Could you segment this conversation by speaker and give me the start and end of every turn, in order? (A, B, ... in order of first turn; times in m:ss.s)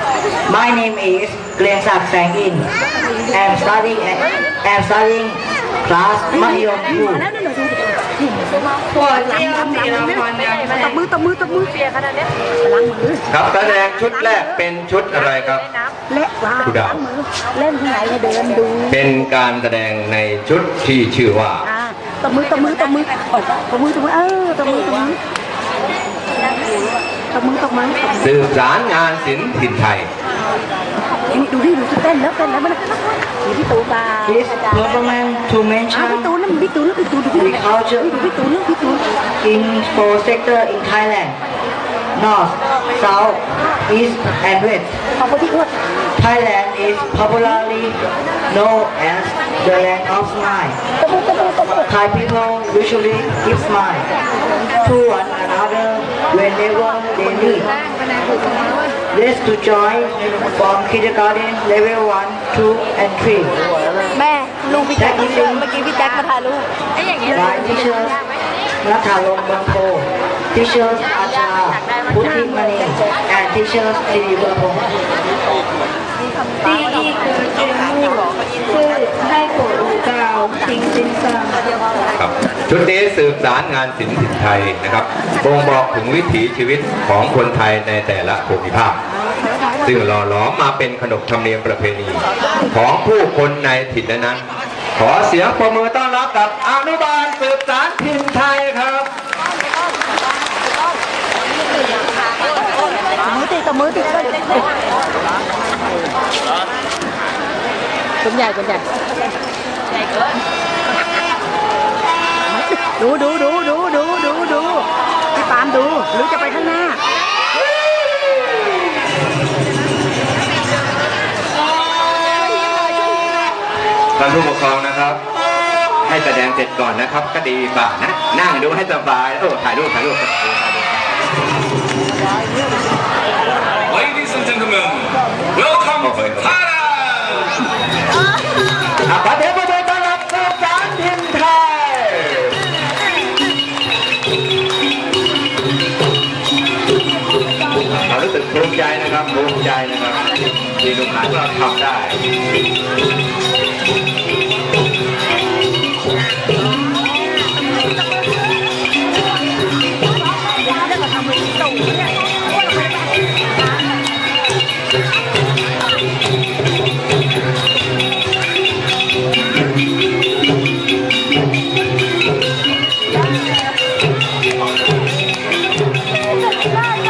0:00.5-0:02.7 A
0:03.3-0:07.3 A
0:07.2-0:07.9 B
0:09.0-0:11.9 B
0:09.0-0:10.8 C
0:12.6-0:13.2 B
0:13.3-0:15.7 D
0:16.1-0:18.9 B
0:16.6-0:17.0 D
0:18.9-0:21.7 D
0:21.7-0:25.2 B
0:27.4-0:28.1 B
0:28.2-0:30.1 D
0:31.3-0:32.9 B
0:33.4-0:34.2 B
0:34.2-0:36.4 A
0:36.2-0:37.5 B
0:37.3-0:38.3 A
0:38.2-0:39.0 B
0:39.4-0:41.4 A
0:42.2-0:45.0 A
0:45.2-0:45.7 B
0:46.2-0:50.8 A
0:51.7-0:54.1 A
0:54.8-0:57.7 A
0:59.1-1:03.6 A
1:04.2-1:04.8 B
1:04.8-1:05.8 A
1:05.8-1:06.6 B
1:07.2-1:08.2 A
1:08.8-1:14.9 A
1:16.6-1:21.6 C
1:22.2-1:29.0 D
1:29.8-1:39.1 D
1:43.3-1:44.5 B
1:48.2-1:48.9 B
1:52.7-1:57.0 B
2:04.2-2:05.2 D
2:06.0-2:10.5 D
2:13.9-2:17.4 D
2:19.0-2:22.6 D
2:27.8-2:32.2 D
2:40.8-2:42.0 B